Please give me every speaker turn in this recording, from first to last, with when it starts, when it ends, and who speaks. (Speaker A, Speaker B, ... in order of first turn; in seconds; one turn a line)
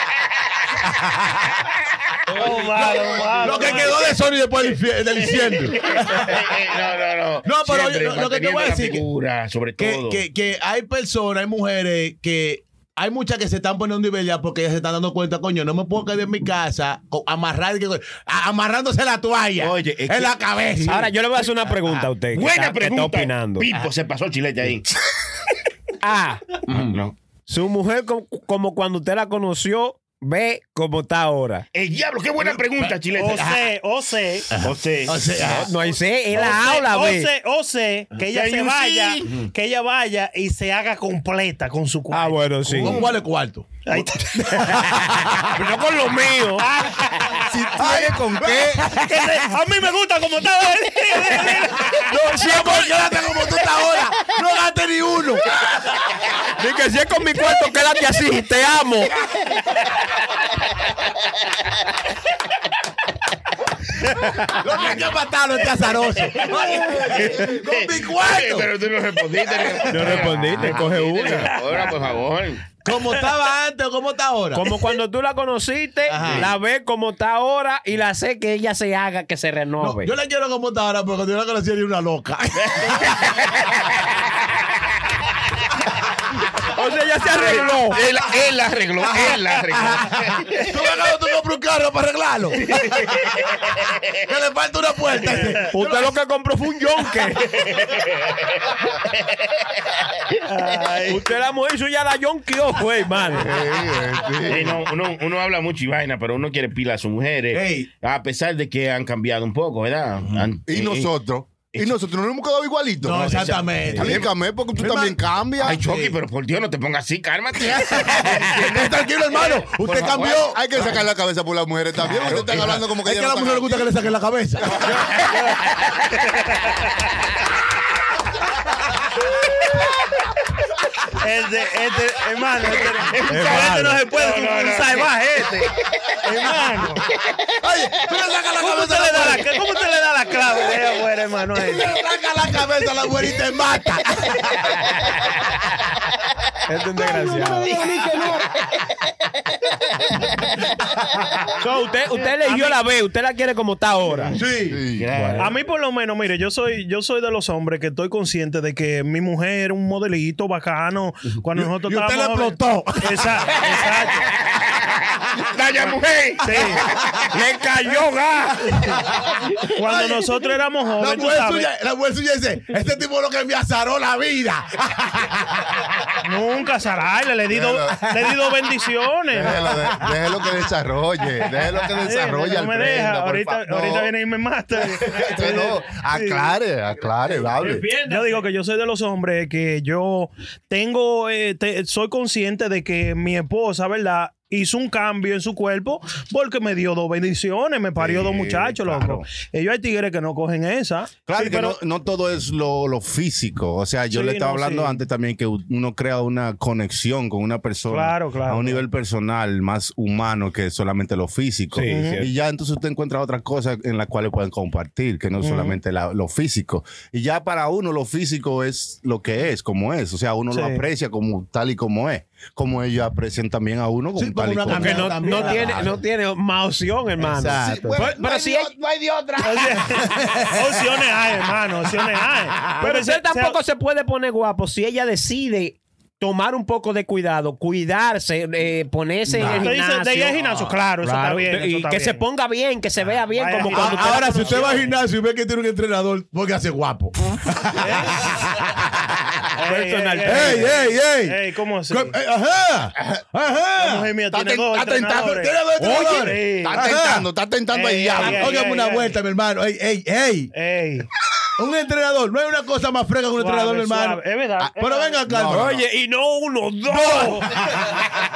Speaker A: 2.3-6.5
Speaker B: 2.3-4.2
Speaker C: 5.2-10.2
Speaker A: 7.5-9.0
Speaker A: 9.8-21.1
Speaker C: 19.6-21.0
Speaker D: 20.9-23.7
Speaker C: 22.3-25.1
Speaker D: 26.0-26.5
Speaker A: 26.7-27.0
Speaker C: 26.7-27.1
Speaker D: 27.5-31.6
Speaker C: 31.7-33.6
Speaker A: 32.4-33.6
Speaker B: 33.1-34.5
Speaker A: 34.5-35.7
Speaker C: 34.6-35.7
Speaker D: 35.4-37.3
Speaker B: 36.3-43.0
Speaker C: 38.3-39.4
Speaker D: 42.1-43.0
Speaker A: 42.7-43.8
Speaker B: 43.9-44.6
Speaker A: 44.4-45.6
Speaker D: 44.6-46.7
Speaker B: 46.6-47.5
Speaker E: 47.5-48.9
Speaker A: 47.7-49.4
Speaker B: 48.9-52.1
Speaker D: 51.9-53.0
Speaker A: 52.4-56.0
Speaker D: 56.6-59.2
Speaker D: 64.1-64.5
Speaker A: 64.5-68.7
Speaker C: 66.3-72.6
Speaker A: 69.3-70.8
Speaker D: 69.9-71.5
Speaker B: 71.5-71.9
Speaker A: 72.8-74.7
Speaker D: 74.5-80.1
Speaker A: 76.1-76.5
Speaker C: 76.2-76.5
Speaker A: 79.8-83.4
Speaker C: 82.6-83.7
Speaker D: 86.7-88.0
Speaker C: 87.4-90.9
Speaker A: 89.0-93.4
Speaker C: 92.7-94.1
Speaker A: 94.2-96.1
Speaker B: 95.3-95.6
Speaker D: 95.7-97.7
Speaker C: 97.5-100.3
Speaker B: 100.5-101.3
Speaker D: 101.1-103.5
Speaker E: 103.3-104.8
Speaker C: 104.4-111.1
Speaker A: 107.5-107.9
Speaker E: 110.7-115.8
Speaker A: 113.0-115.2
Speaker D: 113.8-114.2
Speaker C: 115.6-120.5
Speaker A: 115.7-116.1
Speaker A: 117.6-121.0
Speaker E: 120.3-123.9
Speaker A: 122.1-124.9
Speaker C: 122.3-122.5
Speaker C: 124.7-126.3
Speaker B: 131.1-137.1
Speaker C: 132.9-136.2
Speaker D: 133.3-134.0
Speaker C: 137.1-137.4
Speaker A: 137.6-139.5
Speaker B: 138.6-141.9
Speaker A: 141.6-145.1
Speaker D: 146.7-147.8
Speaker A: 147.0-148.6
Speaker A: 150.8-151.3
Speaker D: 151.6-154.4
Speaker B: 152.3-152.8
Speaker A: 154.3-154.8
Speaker E: 154.7-155.1
Speaker C: 155.0-155.6
Speaker D: 155.1-155.5
Speaker B: 155.4-164.3
Speaker A: 161.6-163.7
Speaker C: 163.6-167.2
Speaker B: 166.4-166.9
Speaker A: 166.4-167.3
Speaker D: 167.3-168.8
Speaker A: 168.7-170.2
Speaker B: 169.7-171.7
Speaker A: 171.0-176.2
Speaker B: 176.2-179.7
Speaker E: 177.5-178.1
Speaker A: 178.0-178.3
Speaker E: 179.3-184.1
Speaker A: 179.6-180.7
Speaker A: 181.4-181.9
Speaker B: 182.0-186.6
Speaker E: 185.0-187.9
Speaker A: 185.1-185.3
Speaker D: 187.6-188.4
Speaker B: 187.8-201.8
Speaker E: 198.0-199.3
Speaker E: 201.3-225.9
Speaker B: 204.1-205.0
Speaker B: 207.9-208.8
Speaker D: 211.7-212.3
Speaker B: 211.8-212.2
Speaker B: 215.4-215.8
Speaker D: 220.5-220.8
Speaker A: 224.2-226.0
Speaker D: 224.7-228.7
Speaker A: 227.2-228.1
Speaker E: 227.6-230.1
Speaker B: 229.4-233.6
Speaker A: 230.1-230.6
Speaker D: 232.8-244.8
Speaker A: 239.3-239.7
Speaker B: 239.4-242.2
Speaker B: 243.3-244.9
Speaker A: 243.7-249.0
Speaker B: 247.8-248.2
Speaker B: 249.6-252.2
Speaker D: 249.6-250.8
Speaker A: 250.3-251.4
Speaker A: 251.9-254.1
Speaker B: 253.8-256.9
Speaker E: 254.3-255.3
Speaker A: 255.2-257.3
Speaker E: 255.8-258.5
Speaker B: 257.7-259.2
Speaker A: 258.1-260.5
Speaker B: 260.5-261.1
Speaker A: 261.6-264.2
Speaker B: 263.4-265.2
Speaker A: 264.8-265.8
Speaker E: 265.2-265.8
Speaker D: 265.5-267.5
Speaker B: 266.9-267.5
Speaker A: 267.0-268.0